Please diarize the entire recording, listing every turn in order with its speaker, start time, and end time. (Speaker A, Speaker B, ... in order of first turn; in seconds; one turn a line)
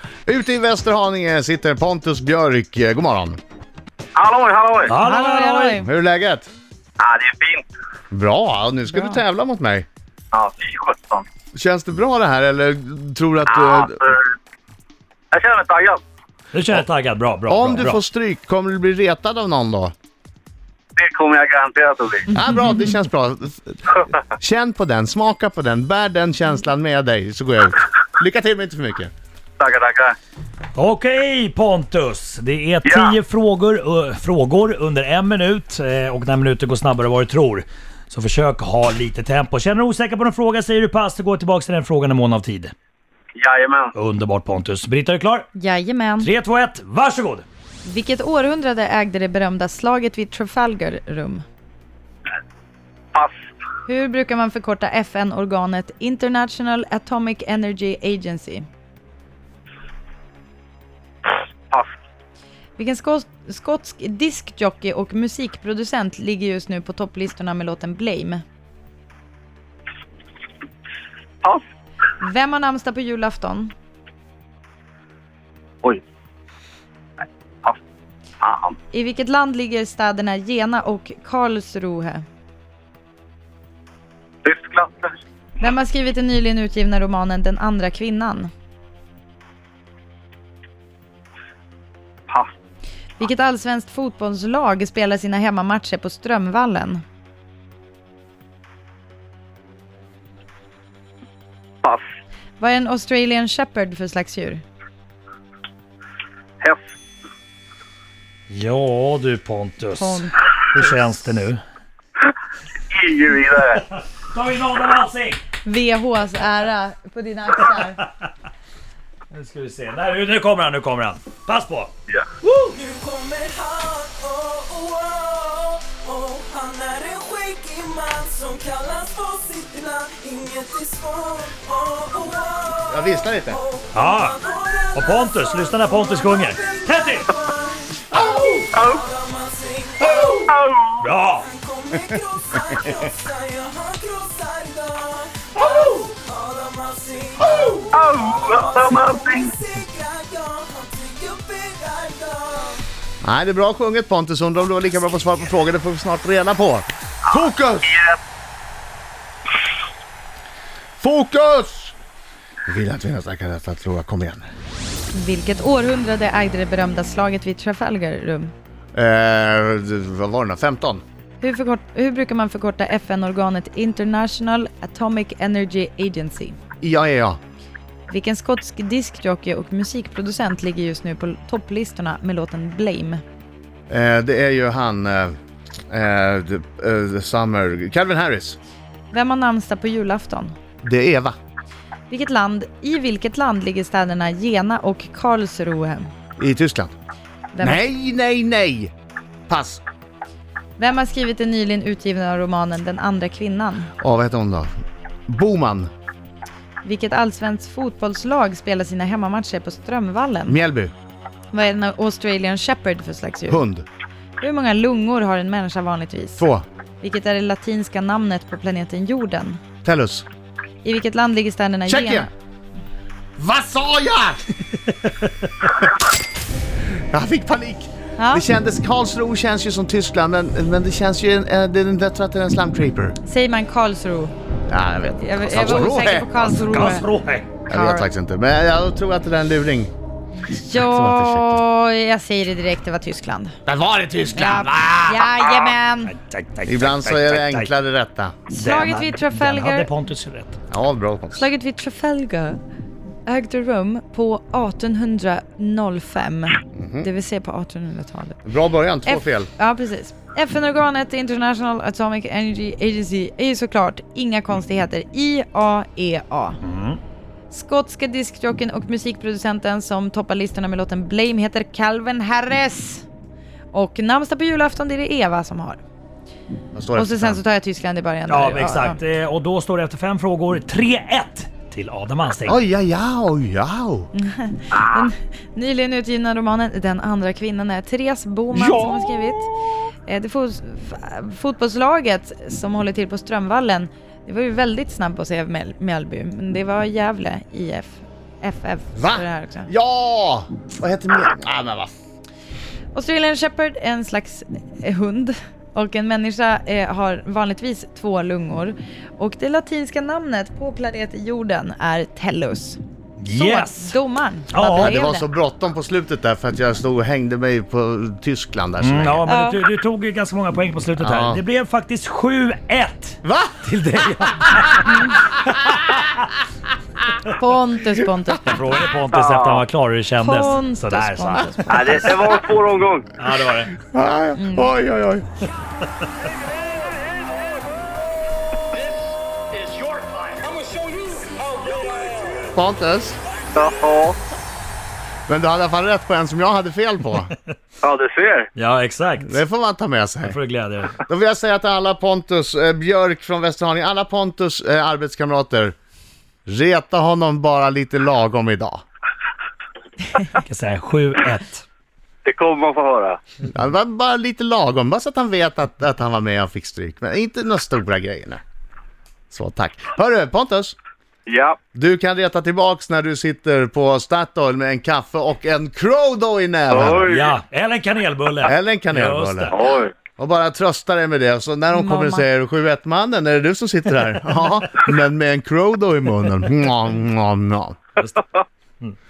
Speaker A: 0.3-3.4
Speaker B: 4.2-4.9
Speaker C: 4.9-5.8
Speaker D: 5.0-5.8
Speaker A: 5.8-6.5
Speaker B: 7.0-7.7
Speaker A: 8.1-9.9
Speaker D: 8.9-9.2
Speaker B: 10.3-11.2
Speaker A: 11.5-14.0
Speaker B: 13.5-14.2
Speaker B: 15.3-16.0
Speaker C: 16.5-18.0
Speaker A: 17.5-19.9
Speaker B: 21.0-22.3
Speaker A: 22.3-29.1
Speaker B: 29.6-30.1
Speaker C: 30.8-42.7
Speaker B: 32.8-33.2
Speaker B: 43.4-43.9
Speaker C: 44.0-45.5
Speaker D: 45.5-46.3
Speaker C: 46.2-47.5
Speaker D: 47.9-51.5
Speaker D: 53.9-58.7
Speaker D: 62.8-68.4
Speaker D: 72.2-73.7
Speaker B: 78.4-78.8
Speaker D: 78.9-82.2
Speaker B: 84.5-85.1
Speaker D: 85.6-88.5
Speaker D: 93.2-97.0
Speaker D: 102.6-104.6
Speaker C: 108.5-111.6
Speaker D: 110.0-110.4
Speaker B: 112.9-113.8
Speaker C: 113.9-115.4
Speaker D: 115.6-118.0
Speaker C: 119.3-121.9
Speaker E: 122.7-140.5
Speaker A: 132.9-133.6
Speaker C: 133.9-134.4
Speaker C: 134.9-137.3
Speaker B: 138.7-139.0
Speaker B: 140.3-141.1
Speaker C: 141.0-141.5
Speaker E: 141.3-152.8
Speaker B: 147.9-149.5
Speaker A: 153.2-157.9
Speaker B: 157.9-158.2
Speaker A: 161.0-161.9
Speaker A: 162.7-164.4
Speaker D: 165.1-168.5
Speaker A: 168.9-171.0
Speaker D: 171.4-176.6
Speaker A: 176.8-177.4
Speaker D: 178.1-183.2
Speaker A: 183.9-185.4
Speaker A: 185.9-188.6
Speaker D: 189.1-190.6
Speaker A: 190.8-191.3
Speaker D: 192.1-196.1
Speaker A: 196.4-196.9
Speaker D: 197.5-197.8
Speaker A: 197.6-198.9
Speaker A: 199.5-199.8
Speaker D: 200.8-203.9
Speaker A: 204.0-204.7
Speaker A: 205.3-205.9
Speaker D: 206.8-210.6
Speaker A: 210.5-210.9
Speaker D: 211.5-213.6
Speaker A: 213.5-213.8
Speaker D: 214.4-216.4
Speaker A: 216.4-216.7
Speaker D: 217.0-219.6
Speaker A: 219.8-220.3
Speaker D: 220.8-222.3
Speaker A: 221.9-222.3
Speaker A: 223.4-224.4
Speaker A: 227.1-233.2
Speaker D: 228.2-228.4
Speaker D: 233.2-234.3
Speaker A: 234.7-236.3
Speaker D: 235.2-237.1
Speaker C: 236.4-237.6
Speaker D: 237.7-238.1
Speaker A: 237.7-239.9
Speaker D: 240.5-243.6
Speaker A: 240.7-241.6
Speaker A: 243.7-245.3
Speaker D: 244.3-246.1
Speaker C: 246.1-247.7
Speaker A: 246.7-248.3
Speaker D: 248.5-249.9
Speaker C: 248.6-250.6
Speaker A: 250.7-251.5
Speaker D: 251.4-252.6
Speaker D: 253.3-258.4
Speaker A: 256.7-257.1
Speaker A: 258.4-259.5
Speaker D: 259.1-266.6
Speaker C: 266.6-267.0
Speaker D: 267.5-273.1
Speaker D: 273.7-275.8
Speaker A: 276.7-277.4
Speaker D: 276.9-279.0
Speaker C: 278.3-282.6
Speaker A: 282.5-284.1
Speaker D: 284.1-289.5
Speaker B: 284.7-285.1
Speaker A: 288.6-288.9
Speaker D: 290.1-299.7
Speaker A: 298.9-301.9
Speaker D: 302.9-312.8
Speaker C: 313.2-314.0
Speaker D: 313.3-315.3
Speaker C: 314.5-314.9
Speaker A: 314.8-319.3
Speaker C: 318.8-326.1
Speaker D: 319.3-319.6
Speaker A: 321.0-321.4
Speaker A: 323.2-323.6
Speaker D: 327.2-328.6
Speaker C: 328.5-331.6
Speaker B: 329.1-329.6
Speaker D: 330.2-332.2
Speaker B: 331.7-333.1
Speaker C: 333.2-333.8
Speaker A: 333.8-335.3
Speaker D: 334.4-334.7
Speaker A: 342.5-343.2
Speaker B: 343.6-344.2
Speaker A: 345.3-347.3
Speaker B: 347.8-348.5
Speaker C: 348.6-349.4
Speaker A: 349.2-350.4
Speaker C: 350.3-351.0
Speaker A: 351.1-355.8
Speaker A: 356.5-358.8
Speaker C: 360.3-361.6
Speaker B: 362.2-363.2
Speaker A: 363.5-368.4
Speaker A: 369.3-370.8
Speaker B: 371.3-371.6
Speaker A: 371.7-377.1
Speaker B: 376.7-377.4
Speaker C: 377.1-379.6
Speaker A: 378.4-379.6
Speaker B: 379.5-379.9
Speaker A: 380.2-387.8
Speaker D: 381.7-382.2